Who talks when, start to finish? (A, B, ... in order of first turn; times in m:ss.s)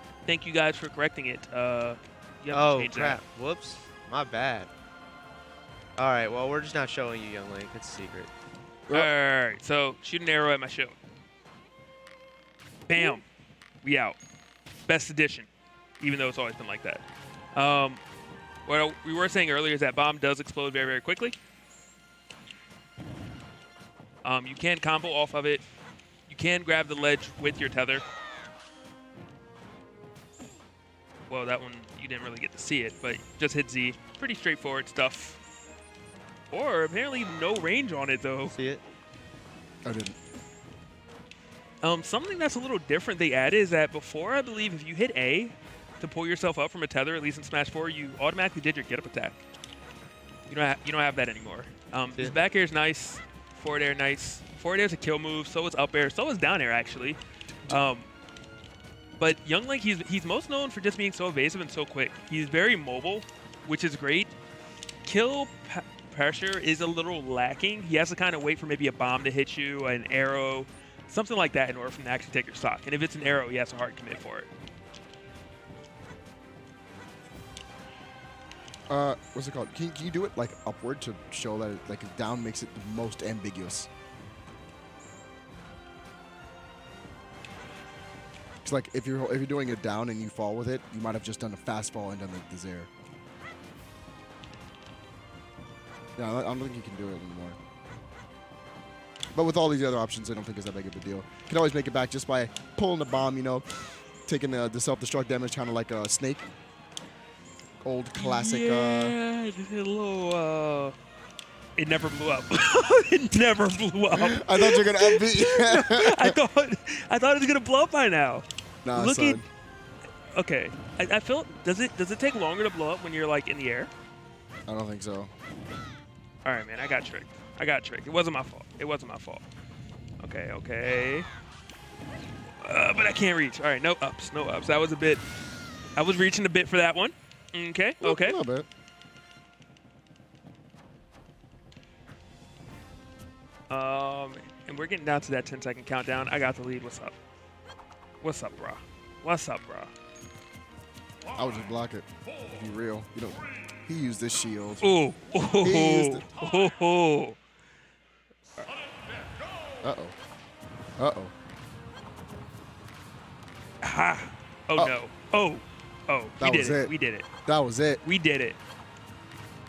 0:00.2-0:03.2 A
0:02.5-0:04.7 B
0:06.0-0:08.3 B
0:08.9-0:11.0 A
0:12.9-0:13.2 A
0:13.0-0:13.2 C
0:13.8-0:14.2 A
0:14.9-0:15.5 A
0:16.0-0:18.0 A
0:18.7-0:21.4 A
0:24.2-0:25.6 A
0:26.3-0:28.0 A
0:31.3-0:35.4 A
0:36.5-0:38.6 A
0:38.5-0:38.8 B
0:39.8-0:40.1 C
0:41.8-0:49.4 A
0:50.5-0:58.1 A
0:59.2-1:04.3 A
1:05.0-1:14.5 A
1:18.9-1:23.9 C
1:28.6-1:32.9 C
1:36.2-1:37.6 C
1:39.3-1:43.7 C
1:44.2-1:46.5 C
1:47.8-1:49.1 C
1:48.1-1:50.9 A
1:51.8-1:59.4 A
1:54.1-1:56.4 C
1:58.8-1:59.4 C
2:00.3-2:03.9 A
2:04.7-2:05.3 C
2:06.4-2:09.4 A
2:10.2-2:11.3 A
2:12.6-2:15.2 A
2:16.0-2:18.4 A
2:18.0-2:18.7 C
2:23.7-2:27.2 A
2:28.2-2:29.9 A
2:31.3-2:34.9 C
2:34.8-2:37.4 A
2:35.6-2:36.3 C
2:39.8-2:40.2 C
2:41.0-2:41.3 C
2:43.8-2:47.3 A
2:46.4-2:46.9 C
2:47.5-2:48.0 C
2:48.0-2:48.6 A